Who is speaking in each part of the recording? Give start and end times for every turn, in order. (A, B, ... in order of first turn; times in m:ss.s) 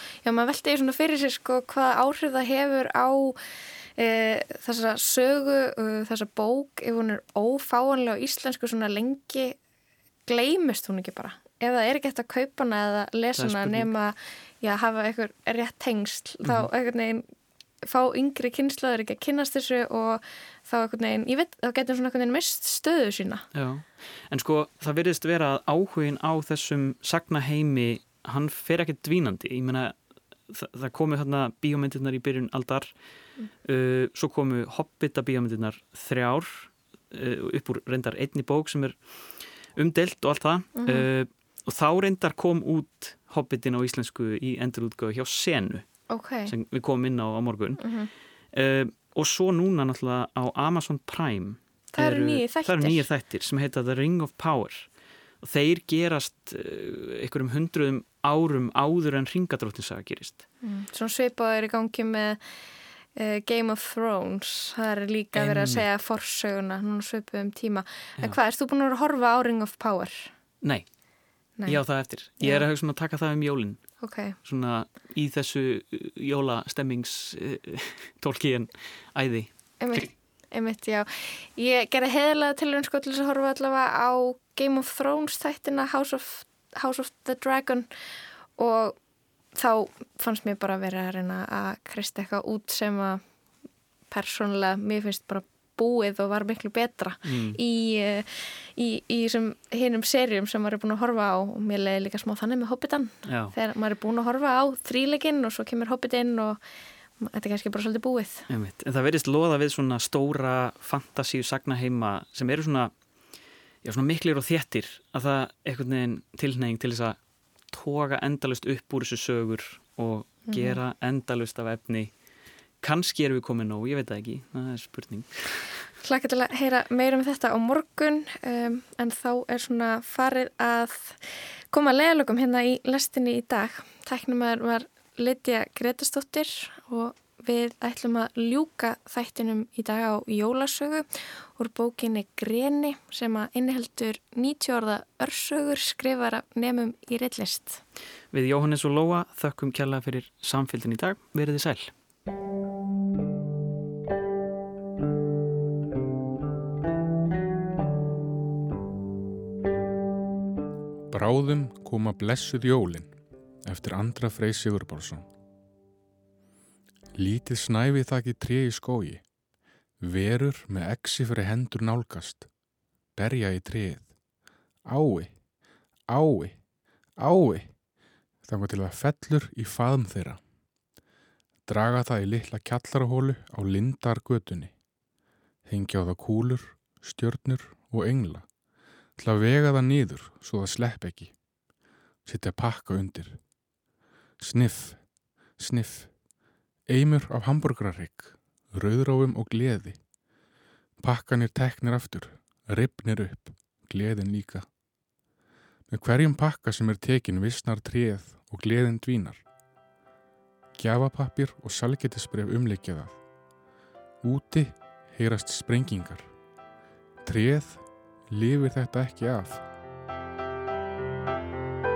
0:00.2-0:03.4 A
0:04.0-0:09.6 A
0:10.3-0:17.2 A
0:13.4-0:13.9 B
0:17.8-0:23.4 A
0:23.5-0:32.9 B
0:33.6-0:39.2 B
0:39.7-0:45.9 B
0:40.8-0:41.1 A
0:46.1-0:46.5 A
0:46.4-0:47.9 B
0:47.8-0:48.1 A
0:48.5-0:54.9 B
0:51.9-0:53.1 A
0:55.4-1:00.4 B
1:00.6-1:02.4 A
1:03.1-1:10.3 A
1:05.3-1:05.8 B
1:10.6-1:10.9 B
1:11.6-1:13.8 B
1:12.4-1:12.6 A
1:14.0-1:14.3 A
1:14.4-1:20.1 B
1:19.8-1:27.9 A
1:28.6-1:29.0 A
1:29.5-1:33.2 A
1:34.1-1:46.6 A
1:37.2-1:37.6 B
1:43.2-1:43.5 B
1:47.2-1:48.5 A
1:48.5-1:52.9 B
1:53.8-1:57.2 B
1:57.7-2:02.1 B
2:00.5-2:00.8 A
2:02.8-2:05.7 B
2:06.0-2:27.8 A
2:28.3-2:31.9 B
2:41.1-2:45.3 C
2:47.1-2:49.3 C
2:50.0-2:52.5 C
2:53.1-2:54.2 C
2:54.8-2:55.4 C
2:56.0-2:56.6 C
2:57.2-2:57.8 C
2:58.4-3:00.4 C
3:01.6-3:04.8 C
3:05.6-3:08.5 C
3:09.2-3:11.4 C
3:12.2-3:13.6 C
3:14.4-3:16.3 C
3:16.8-3:20.1 C
3:21.0-3:24.8 C
3:25.9-3:29.4 C
3:30.7-3:33.2 C
3:34.2-3:36.4 C
3:37.2-3:39.6 C